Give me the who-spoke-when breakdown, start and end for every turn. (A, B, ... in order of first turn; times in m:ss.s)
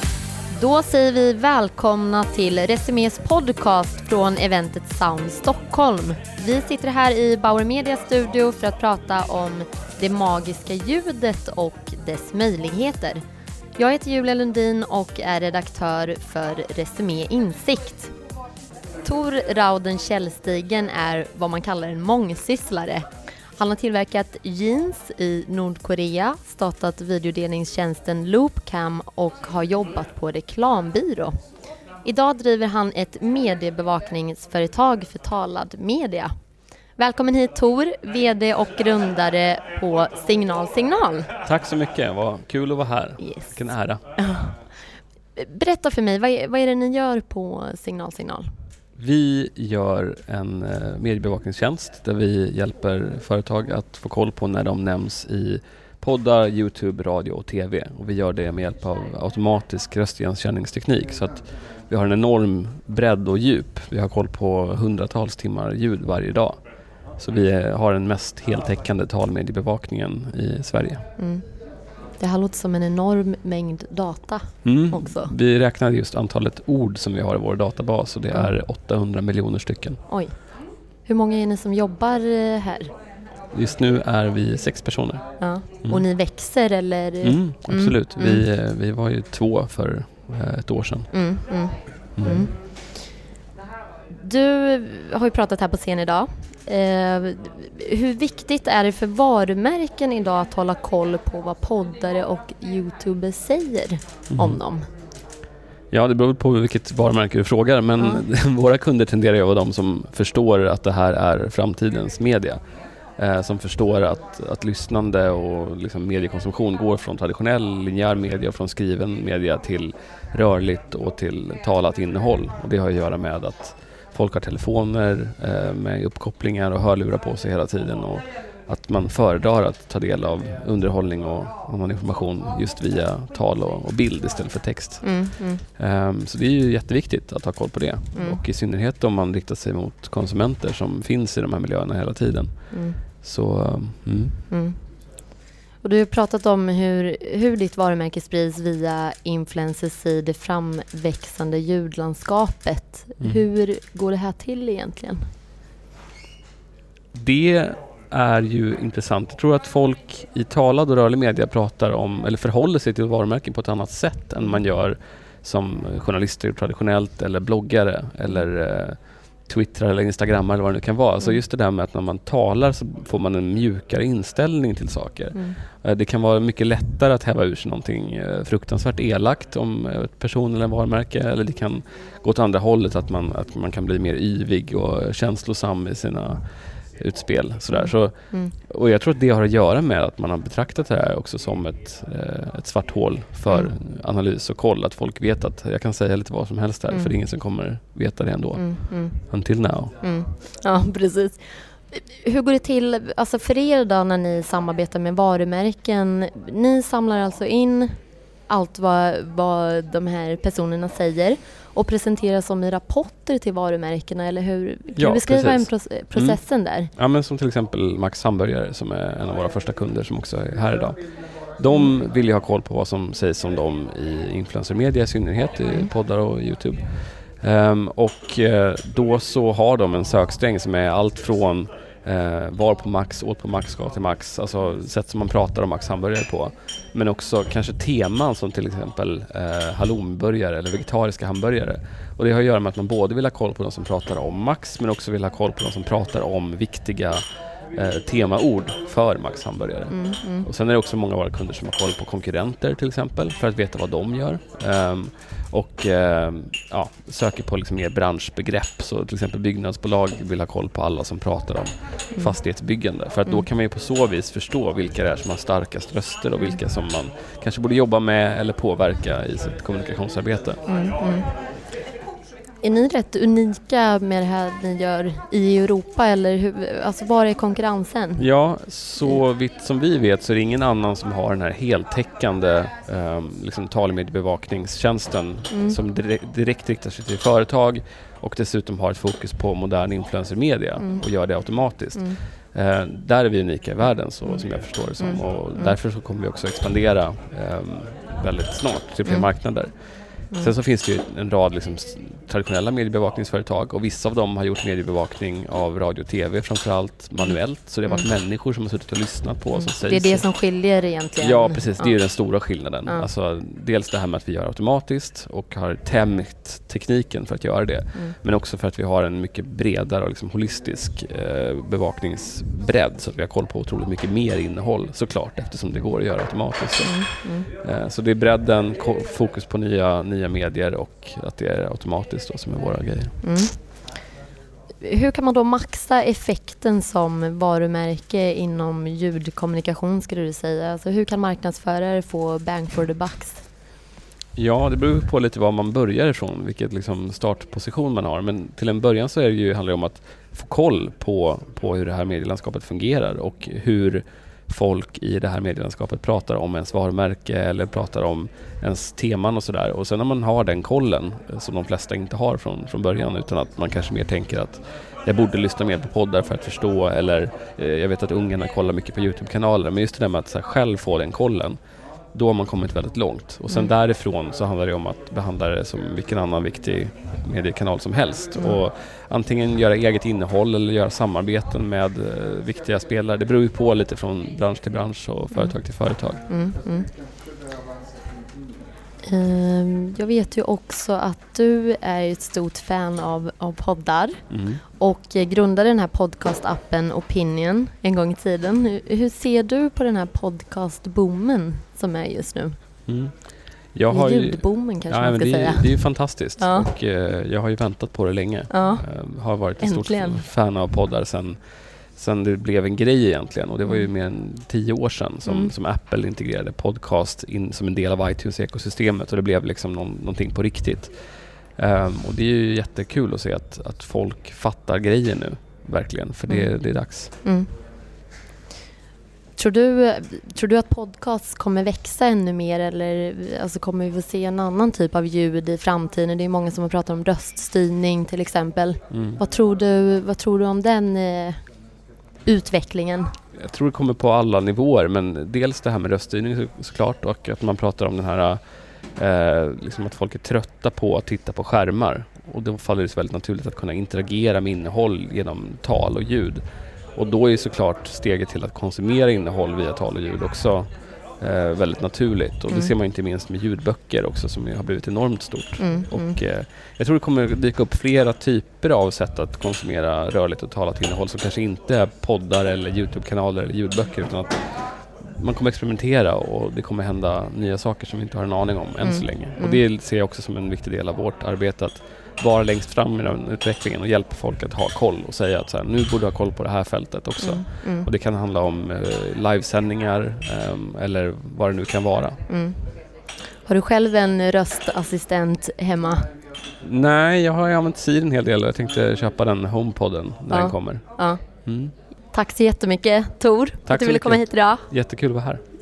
0:00.6-0:13.2 A
0:13.8-0:18.1 A
0:19.0-0:23.0 A
0:23.6-0:31.3 A
0:32.0-0:36.3 A
0:37.0-0:41.3 A
0:41.4-0:44.0 B
0:43.2-0:43.6 A
0:44.2-0:44.5 A
0:45.4-0:48.4 A
0:49.0-1:06.6 B
1:07.2-1:11.0 B
1:11.2-1:11.4 A
1:12.2-1:15.3 A
1:14.6-1:20.0 B
1:20.1-1:20.4 A
1:21.0-1:22.9 A
1:23.5-1:25.2 B
1:25.4-1:28.4 A
1:27.2-1:31.1 B
1:31.1-1:32.6 A
1:32.2-1:32.5 B
1:34.1-1:44.9 A
1:44.3-1:44.6 B
1:45.9-1:52.6 B
1:48.0-1:48.2 A
1:53.2-2:24.4 B
2:15.0-2:15.6 A
2:18.1-2:18.4 A
2:22.7-2:23.0 A
2:24.5-2:24.8 A
2:25.8-2:35.2 A
2:33.2-2:33.4 B
2:37.1-3:19.9 B
2:55.3-2:55.6 A
3:07.7-3:08.5 A
3:13.5-3:13.7 A
3:16.9-3:17.2 A
3:18.5-3:19.5 A
3:20.0-3:36.9 A
3:35.0-3:36.4 B
3:36.9-3:41.0 B
3:41.6-4:07.2 B
4:07.7-4:30.6 B
4:09.9-4:10.5 A
4:22.1-4:22.4 A
4:30.6-4:31.4 A
4:32.6-4:38.2 A
4:38.2-4:59.7 B
4:45.5-4:45.8 A
4:50.8-4:51.1 A
4:51.9-4:52.2 A
4:55.0-4:55.8 A
4:59.0-4:59.3 A
5:00.3-5:10.4 B
5:07.1-5:08.0 A
5:09.5-5:13.1 A
5:11.2-5:33.1 B
5:26.8-5:27.5 A
5:33.2-5:33.8 A
5:34.8-5:43.4 A
5:44.4-6:11.6 B
6:12.1-6:26.2 B
6:13.5-6:13.7 A
6:18.3-6:18.6 A
6:25.3-6:25.6 A
6:26.3-6:26.9 A
6:29.1-6:42.6 A
6:34.3-6:34.6 B
6:42.8-6:51.4 B
6:43.9-6:46.7 A
6:48.5-6:50.2 A
6:51.9-7:00.9 B
6:53.6-6:53.9 A
6:55.2-6:55.6 A
7:01.6-7:07.1 B
7:06.3-7:07.5 A
7:09.4-7:21.5 A
7:18.9-7:19.2 B
7:22.2-7:23.1 A
7:23.3-7:28.4 B
7:28.9-7:36.4 B
7:36.9-8:12.2 B
7:42.5-7:42.8 A
7:45.6-7:46.2 A
7:58.8-7:59.6 A
8:07.2-8:07.9 A
8:12.3-8:12.7 A
8:13.4-8:16.1 A
8:16.6-8:20.8 B
8:20.3-8:21.2 A
8:21.4-8:21.7 B
8:22.1-8:24.7 A
8:23.6-8:25.4 B